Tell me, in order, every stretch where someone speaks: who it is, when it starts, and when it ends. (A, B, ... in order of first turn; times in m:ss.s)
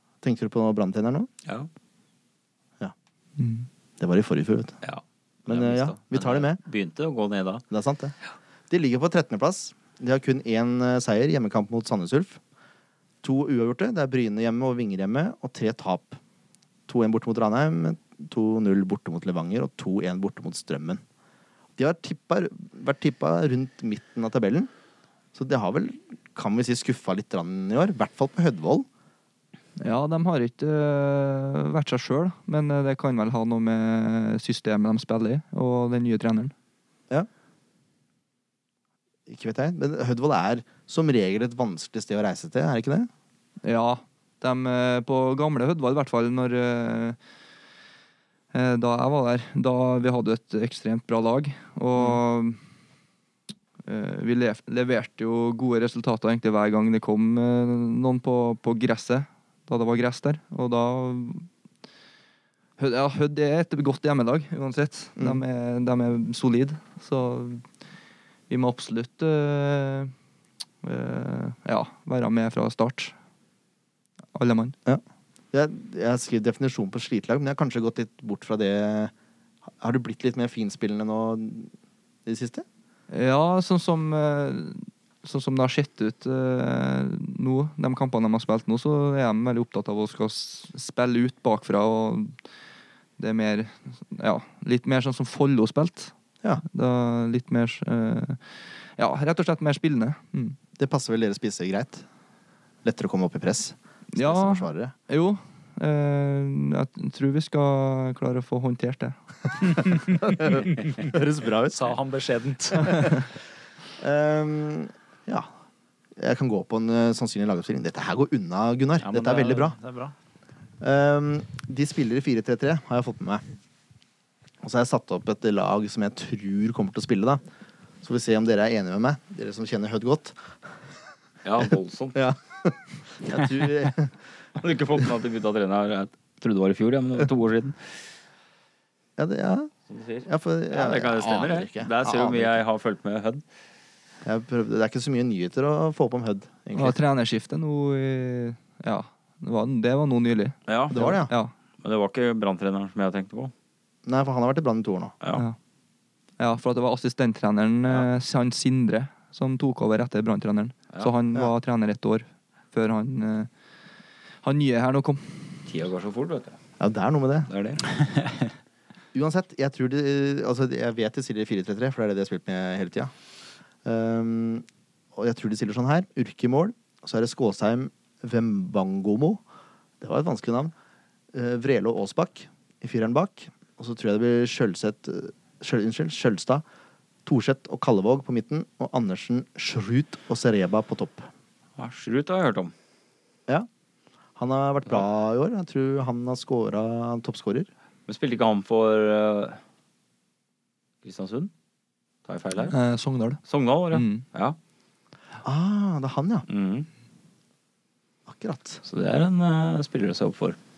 0:00.2-0:01.3 A
0:03.4-0:03.7 B
0:04.0-0:04.8 A
0:04.8-0:07.6 C
0:05.5-0:06.6 A
0:07.7-0:08.1 A
0:08.7-0:12.4 A
0:13.2-0:16.2 A
0:16.9-0:21.0 A
0:21.8-0:24.7 A
0:25.4-0:28.9 A
0:29.8-0:36.5 B
0:39.3-0:43.1 A
0:43.6-0:47.2 B
0:48.5-0:52.6 B
0:53.9-1:01.5 B
1:02.8-1:07.6 B
1:08.5-1:10.1 B
1:10.8-1:13.1 B
1:14.4-1:14.8 B
1:14.9-1:19.1 A
1:19.8-1:21.7 A
1:22.3-1:22.6 A
1:23.1-1:32.3 B
1:33.2-1:40.6 B
1:40.8-1:42.0 A
1:42.8-1:44.9 A
1:44.1-1:49.2 B
1:50.1-1:52.0 A
1:51.7-1:53.1 D
1:54.0-1:55.5 A
1:56.2-1:59.8 A
1:59.0-2:00.1 D
2:00.8-2:03.4 A
2:04.6-2:07.4 A
2:08.0-2:10.4 A
2:11.4-2:12.2 C
2:12.1-2:14.1 A
2:14.6-2:17.8 C
2:19.2-2:19.7 A
2:19.9-2:23.4 C
2:20.3-2:22.6 A
2:24.2-2:27.0 A
2:26.8-2:31.5 B
2:30.7-2:31.2 C
2:30.9-2:31.3 A
2:31.8-2:33.5 C
2:34.1-2:35.1 A
2:36.4-2:43.5 B
2:44.4-2:45.6 B
2:45.7-2:46.6 C
2:46.8-2:47.5 A
2:47.5-2:47.8 C
2:48.0-2:48.4 D
2:49.1-2:53.1 A
2:53.8-2:59.4 A
3:00.0-3:00.7 A
3:01.3-3:06.6 A
3:07.2-3:11.3 A
3:11.8-3:12.7 C
3:14.4-3:17.7 A
3:18.1-3:19.6 C
3:21.0-3:21.5 C
3:22.2-3:22.8 C
3:22.7-3:23.4 B
3:23.4-3:24.6 C
3:23.9-3:24.2 B
3:25.4-3:26.4 A
3:26.5-3:26.9 C
3:28.3-3:28.8 A
3:28.8-3:30.6 C